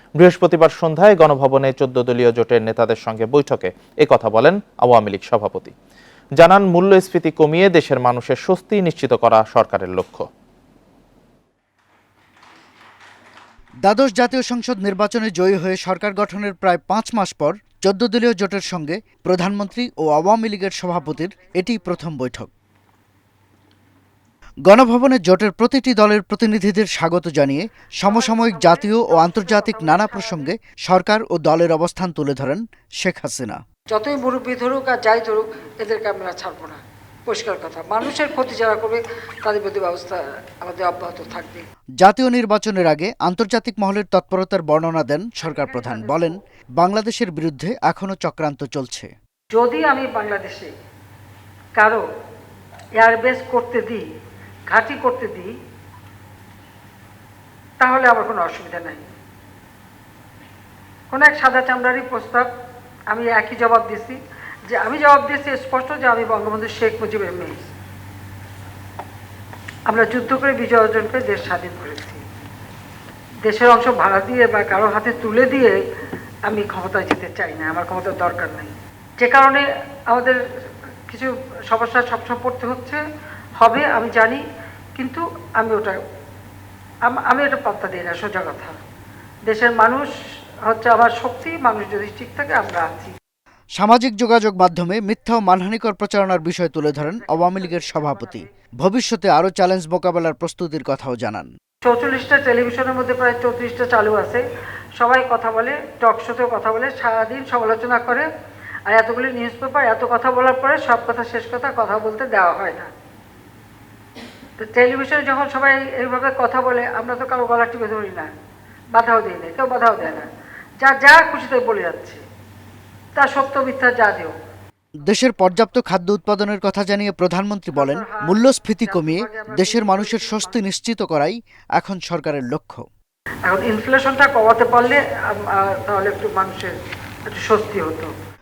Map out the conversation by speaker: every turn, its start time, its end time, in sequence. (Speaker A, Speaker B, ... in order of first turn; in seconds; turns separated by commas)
Speaker A: 0.2-5.7, Speaker A: 6.4-10.3, Speaker B: 13.8-22.5, Speaker B: 24.7-33.6, Speaker C: 28.1-30.5, Speaker C: 33.9-41.6, Speaker B: 42.0-49.1, Speaker C: 45.5-46.4, Speaker C: 49.5-50.7, Speaker C: 51.8-52.0, Speaker C: 53.0-54.0, Speaker C: 54.7-55.5, Speaker C: 57.8-59.1, Speaker C: 61.1-62.5, Speaker C: 63.1-67.7, Speaker C: 69.9-72.2, Speaker C: 73.4-75.8, Speaker C: 76.5-80.4, Speaker C: 81.1-83.0, Speaker C: 83.6-84.4, Speaker C: 85.0-86.0, Speaker C: 87.1-88.8, Speaker C: 89.5-90.1, Speaker C: 90.6-93.1, Speaker B: 93.8-101.5, Speaker C: 96.7-98.5, Speaker C: 101.8-104.4, Speaker C: 105.0-108.3, Speaker C: 108.9-112.9, Speaker C: 114.6-118.3, Speaker C: 118.9-120.3, Speaker C: 120.8-122.2, Speaker C: 123.2-124.3, Speaker B: 125.0-132.8, Speaker C: 127.7-130.7, Speaker C: 133.4-136.7, Speaker C: 137.3-138.1